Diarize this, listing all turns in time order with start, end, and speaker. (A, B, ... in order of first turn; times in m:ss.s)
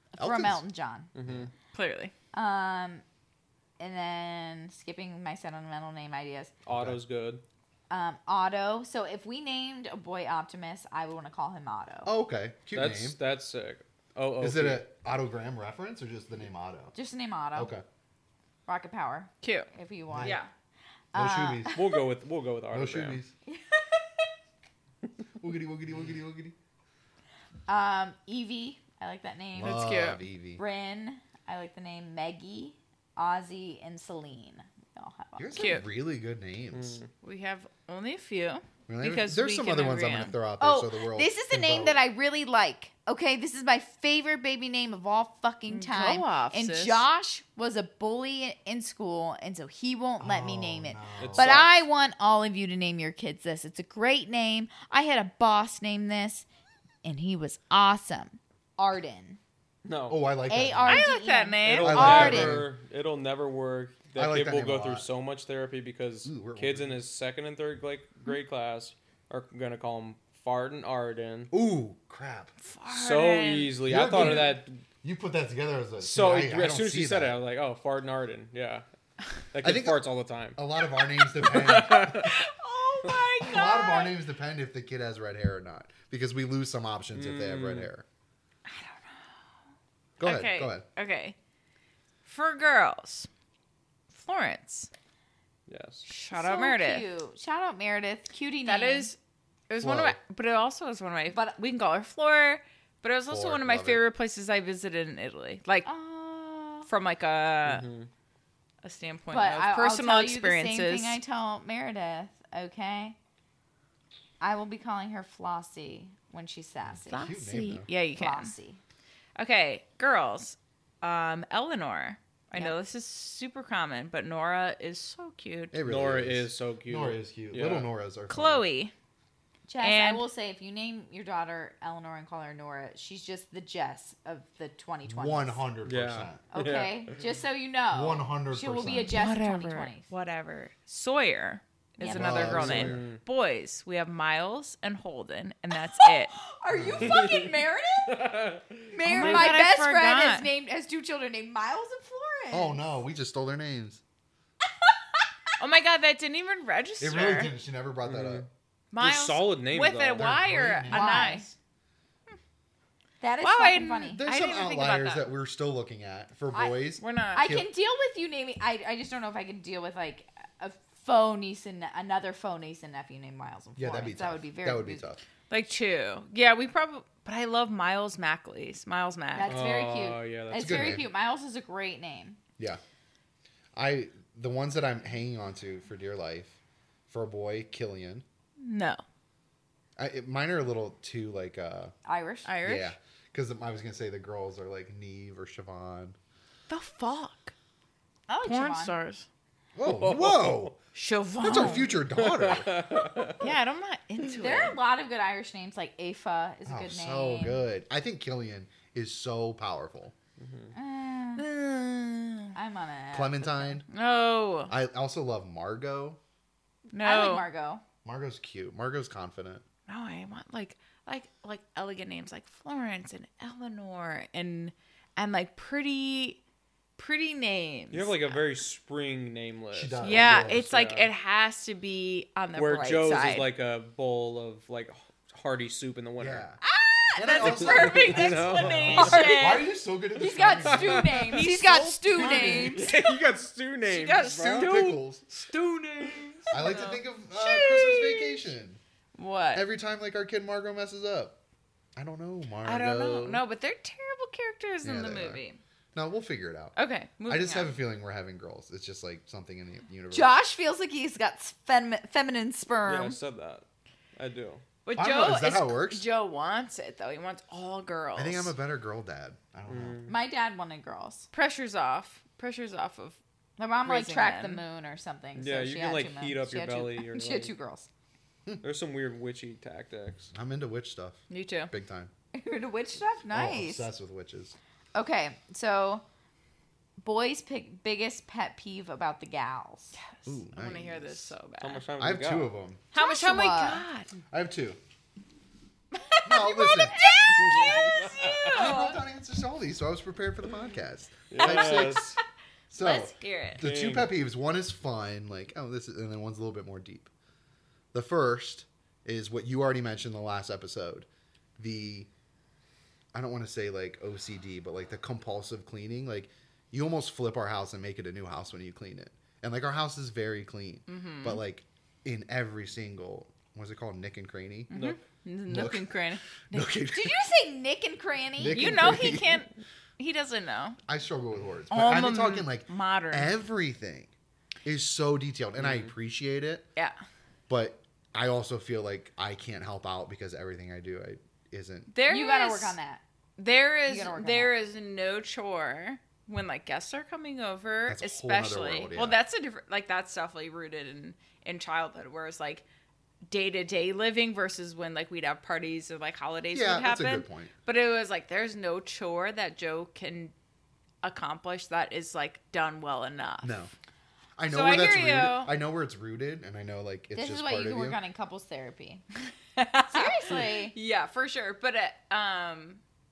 0:00.1-0:01.1 A
0:00.2-0:00.6 B
0:01.1-0:01.5 C
0:01.2-0:01.5 B
0:01.7-0:02.1 D
0:02.3-0:03.0 A
0:03.8-0:06.5 A
0:06.6-0:07.4 C
0:06.7-0:07.0 B
0:07.9-0:12.1 A
0:12.0-0:13.2 B
0:12.7-0:14.8 C
0:14.4-0:16.9 B
0:16.9-0:17.7 A
0:17.5-0:17.8 B
0:18.6-0:20.4 A
0:19.4-0:19.7 D
0:20.1-0:20.4 B
0:20.2-0:20.5 D
0:21.1-0:21.8 A
0:21.1-0:21.8 B
0:21.7-0:23.2 C
0:22.7-0:23.3 B
0:23.5-0:24.3 A
0:25.4-0:26.6 B
0:27.7-0:30.0 A
0:29.5-0:30.6 B
0:29.6-0:30.2 D
0:30.6-0:35.7 A
0:35.4-0:37.0 B
0:35.5-0:35.8 D
0:36.7-0:37.1 C
0:37.2-0:40.3 D
0:38.9-0:42.0 B
0:40.6-0:56.5 A
0:45.7-0:47.0 D
0:50.2-0:51.6 B
0:51.2-0:51.7 C
0:57.0-0:59.4 A
0:59.8-1:00.2 C
1:00.1-1:01.1 B
1:00.5-1:02.6 A
1:00.9-1:02.3 D
1:01.6-1:11.5 C
1:01.6-1:02.7 B
1:04.2-1:05.1 B
1:06.2-1:07.0 B
1:11.5-1:12.5 B
1:12.6-1:14.4 D
1:12.9-1:14.8 C
1:13.8-1:17.3 B
1:16.0-1:18.8 C
1:19.5-1:20.6 C
1:19.6-1:20.0 B
1:20.5-1:22.4 B
1:21.2-1:22.3 C
1:22.2-1:24.1 D
1:23.4-1:28.0 B
1:27.1-1:27.9 C
1:28.6-1:29.6 D
1:30.2-1:30.8 B
1:30.2-1:31.4 D
1:32.2-1:33.3 D
1:34.1-1:34.9 D
1:35.7-1:36.0 C
1:36.0-1:37.1 D
1:36.3-1:39.1 A
1:38.6-1:39.2 D
1:39.7-1:45.9 D
1:39.8-1:40.2 B
1:43.3-1:44.0 B
1:45.8-1:46.9 A
1:46.8-1:47.9 D
1:47.6-1:48.1 C
1:48.8-1:51.2 D
1:49.3-1:53.2 A
1:54.4-1:57.2 A
1:56.9-1:57.9 B
1:57.1-1:58.5 D
1:58.1-1:58.8 A
1:59.4-2:05.8 D
2:05.7-2:08.6 B
2:05.8-2:07.9 C
2:08.3-2:08.9 D
2:09.7-2:15.6 A
2:09.8-2:10.3 D
2:15.0-2:16.4 B
2:15.8-2:17.2 C
2:16.5-2:20.1 A
2:17.9-2:19.1 B
2:19.1-2:26.4 D
2:22.0-2:22.6 A
2:22.0-2:23.0 B
2:22.2-2:23.2 C
2:26.0-2:28.3 A
2:26.7-2:27.2 B
2:26.8-2:29.5 C
2:28.9-2:33.0 A
2:29.0-2:30.5 D
2:32.5-2:34.0 B
2:35.6-2:37.5 D
2:37.0-2:38.5 B
2:38.0-2:40.3 C
2:38.9-2:41.5 D
2:40.1-2:41.6 B
2:40.9-2:41.4 A
2:43.2-2:44.2 A
2:43.4-2:45.3 D
2:44.1-2:47.6 B
2:46.5-2:46.8 A
2:47.0-2:47.5 D
2:47.3-2:55.0 A
2:53.8-2:55.2 B
2:55.5-2:59.5 D
2:59.3-3:02.4 A
2:59.4-3:01.0 C
3:00.6-3:01.0 B
3:03.7-3:06.6 B
3:07.1-3:08.2 B
3:08.6-3:09.0 D
3:10.0-3:11.9 B
3:12.0-3:12.5 A
3:12.4-3:12.9 D
3:12.6-3:16.2 B
3:16.7-3:17.5 D
3:18.3-3:18.9 A
3:18.4-3:19.3 D
3:19.8-3:20.8 B
3:19.8-3:20.7 C
3:20.9-3:22.0 D
3:21.4-3:22.9 B
3:22.2-3:23.4 C
3:23.4-3:24.8 D
3:24.3-3:27.6 A
3:26.6-3:30.1 B
3:30.4-3:30.7 C
3:30.7-3:31.4 A
3:31.4-3:32.6 D
3:32.5-3:33.8 A
3:33.1-3:33.8 B
3:33.9-3:34.7 D
3:34.7-3:36.2 B
3:36.9-3:37.5 D
3:37.0-3:37.8 A
3:38.0-3:39.6 B
3:39.9-3:46.4 D
3:47.0-3:48.4 D
3:47.9-3:51.1 C
3:49.7-3:50.7 B
3:50.0-3:53.4 D
3:52.6-3:56.4 C
3:56.2-3:56.6 B
3:56.6-3:57.6 A
3:57.2-4:01.1 B
3:57.2-3:59.7 D
3:57.4-3:59.5 C
4:00.2-4:02.9 A
4:00.6-4:01.4 C
4:01.3-4:03.1 D
4:02.2-4:04.8 C
4:02.2-4:02.8 B
4:03.8-4:08.4 D
4:04.1-4:05.3 B
4:06.0-4:06.3 C
4:06.5-4:08.8 B
4:09.1-4:09.6 D
4:09.5-4:11.4 B
4:12.0-4:13.4 B
4:12.6-4:15.6 D
4:14.8-4:15.4 B
4:15.9-4:20.4 B
4:16.8-4:17.7 D
4:20.1-4:23.2 A
4:22.8-4:23.6 C
4:24.2-4:24.6 C
4:24.8-4:28.5 D
4:24.9-4:26.0 B
4:28.2-4:30.0 B
4:29.7-4:30.1 C
4:30.1-4:31.3 A
4:31.3-4:33.2 D
4:33.6-4:37.9 A
4:33.8-4:34.6 D
4:35.4-4:37.5 C
4:38.6-4:40.3 C
4:40.3-4:42.1 B
4:41.3-4:41.7 D
4:42.3-4:43.9 A
4:43.3-4:44.6 B
4:44.9-4:46.0 A
4:47.0-4:50.0 A
4:49.9-4:51.8 D
4:50.2-4:51.4 B
4:51.6-4:52.5 C
4:52.0-4:52.8 B
4:52.9-4:54.1 D
4:52.9-4:53.8 A
4:54.3-4:54.8 B
4:55.9-4:59.0 D
4:56.2-5:02.2 B
4:57.4-4:58.5 C
5:01.3-5:02.2 C
5:02.7-5:07.1 B
5:02.8-5:03.6 D
5:03.6-5:04.1 C
5:07.9-5:11.1 B
5:11.6-5:12.1 B
5:13.1-5:24.7 B
5:20.9-5:21.4 D
5:24.7-5:26.7 D
5:24.7-5:25.0 C
5:25.5-5:27.2 B
5:26.9-5:29.0 A
5:28.4-5:29.4 B
5:28.5-5:30.8 D
5:30.9-5:34.1 B
5:31.7-5:33.3 D
5:34.6-5:36.7 B
5:35.6-5:35.9 C
5:37.5-5:41.9 B
5:41.9-5:42.8 D
5:42.1-5:43.0 A
5:43.4-5:52.6 D
5:43.9-5:44.5 A
5:47.9-5:49.2 B
5:53.3-6:00.3 D
5:56.5-5:57.5 B
6:01.0-6:03.7 D
6:03.4-6:03.7 B
6:04.4-6:08.0 B
6:04.5-6:05.5 D
6:07.1-6:09.0 A
6:09.6-6:12.8 D
6:09.9-6:10.7 A